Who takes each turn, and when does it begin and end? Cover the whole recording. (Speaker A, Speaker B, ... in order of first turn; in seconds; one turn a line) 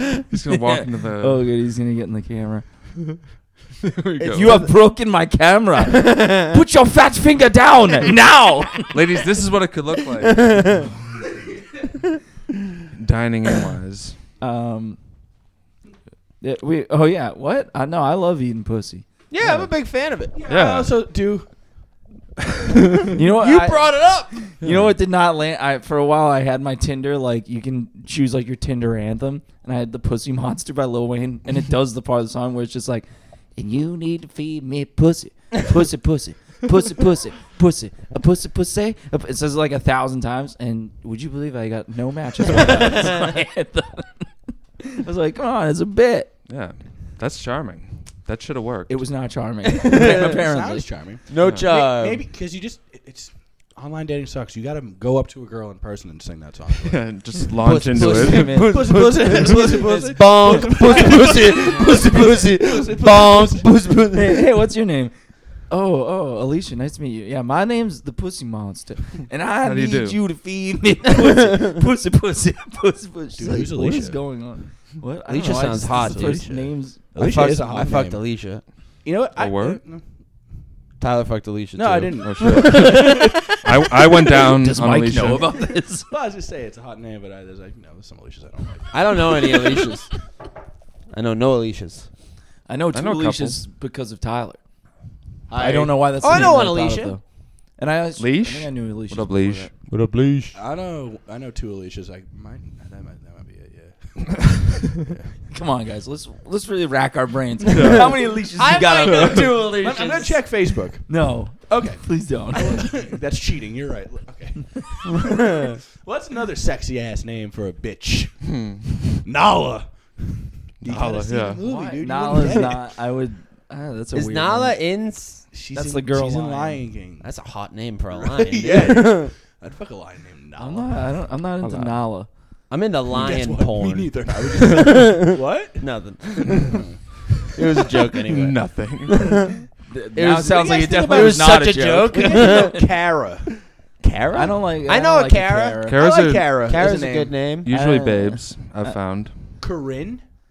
Speaker A: 0.2-1.5
Speaker B: 0.5-2.6
Speaker A: 3.9-4.6
Speaker C: 4.2-4.7
Speaker B: 4.3-9.0
Speaker C: 5.9-6.5
Speaker A: 8.9-10.8
Speaker C: 10.2-10.8
Speaker A: 12.9-14.2
Speaker B: 14.4-15.0
Speaker B: 16.4-19.7
Speaker C: 19.3-20.4
Speaker D: 20.4-21.4
Speaker A: 20.4-20.9
Speaker B: 23.1-46.3
Speaker C: 23.2-24.4
Speaker A: 24.6-24.9
Speaker A: 46.5-49.0
Speaker B: 48.9-50.9
Speaker C: 49.8-50.2
Speaker D: 49.9-57.1
Speaker C: 51.3-52.2
Speaker A: 51.4-51.7
Speaker A: 56.8-58.6
Speaker C: 57.6-64.4
Speaker D: 57.9-63.7
Speaker B: 64.1-77.0
Speaker A: 69.6-70.2
Speaker D: 73.3-74.2
Speaker C: 75.3-78.6
Speaker D: 75.8-76.5
Speaker D: 77.1-78.2
Speaker D: 79.0-80.0
Speaker A: 79.4-79.8
Speaker C: 81.0-83.3
Speaker D: 81.7-83.3
Speaker A: 82.2-85.5
Speaker B: 82.6-83.3
Speaker B: 84.1-86.1
Speaker D: 86.1-89.5
Speaker C: 88.9-90.1
Speaker C: 91.1-92.1
Speaker B: 92.7-94.6
Speaker A: 92.9-93.6
Speaker D: 95.5-96.5
Speaker B: 95.5-97.2
Speaker C: 96.2-97.2
Speaker B: 97.7-99.7
Speaker A: 98.2-99.7
Speaker C: 99.9-100.5
Speaker D: 100.5-105.3
Speaker B: 105.5-109.5
Speaker A: 107.7-108.1
Speaker C: 108.5-110.5
Speaker D: 109.6-118.6
Speaker B: 111.1-113.0
Speaker C: 115.1-115.8
Speaker A: 118.5-119.2
Speaker D: 119.2-122.8
Speaker A: 120.8-121.6
Speaker B: 121.6-124.8
Speaker C: 124.1-125.5
Speaker D: 125.5-127.3
Speaker B: 125.7-126.8
Speaker C: 127.2-129.3
Speaker D: 128.1-131.1
Speaker B: 130.6-132.3
Speaker A: 131.6-131.9
Speaker C: 132.7-136.8
Speaker D: 133.1-135.9
Speaker D: 136.4-137.0
Speaker C: 137.4-139.6
Speaker A: 138.3-139.3
Speaker B: 139.8-142.8
Speaker C: 140.2-142.9
Speaker D: 140.4-143.5
Speaker C: 144.0-147.7
Speaker B: 144.3-146.0
Speaker A: 145.8-146.6
Speaker D: 146.0-147.4
Speaker A: 147.6-149.3
Speaker B: 147.7-149.0
Speaker D: 149.6-150.2